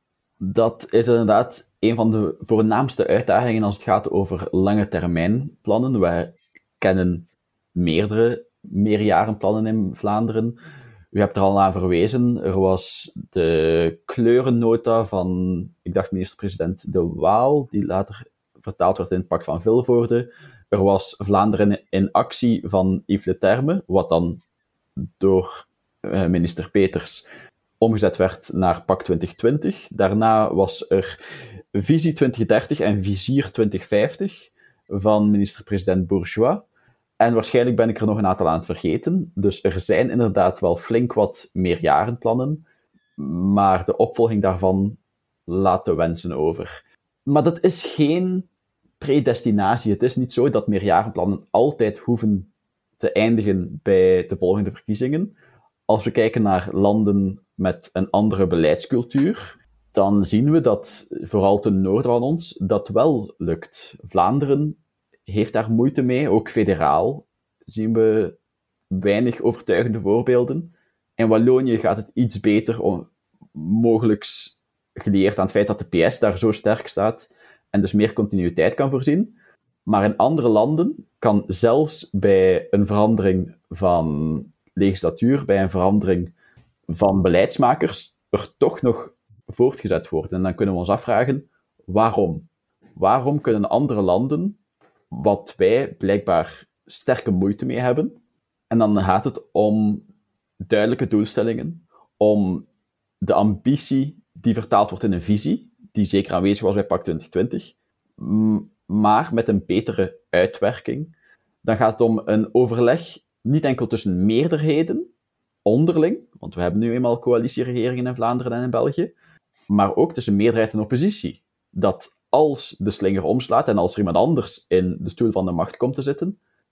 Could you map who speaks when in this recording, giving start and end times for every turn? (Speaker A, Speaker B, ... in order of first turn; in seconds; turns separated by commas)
Speaker A: 0.4-10.6, Speaker A: 11.1-24.4, Speaker A: 25.2-27.2, Speaker A: 27.8-31.2, Speaker A: 31.7-36.6, Speaker A: 37.2-42.6, Speaker A: 43.2-46.7, Speaker A: 47.3-48.5, Speaker A: 49.0-55.4, Speaker A: 55.9-68.4, Speaker A: 68.9-79.3, Speaker A: 79.9-86.3, Speaker A: 86.9-94.6, Speaker A: 95.1-98.2, Speaker A: 98.7-100.0, Speaker A: 100.6-102.7, Speaker A: 103.2-111.1, Speaker A: 111.6-115.1, Speaker A: 115.6-119.1, Speaker A: 119.7-126.4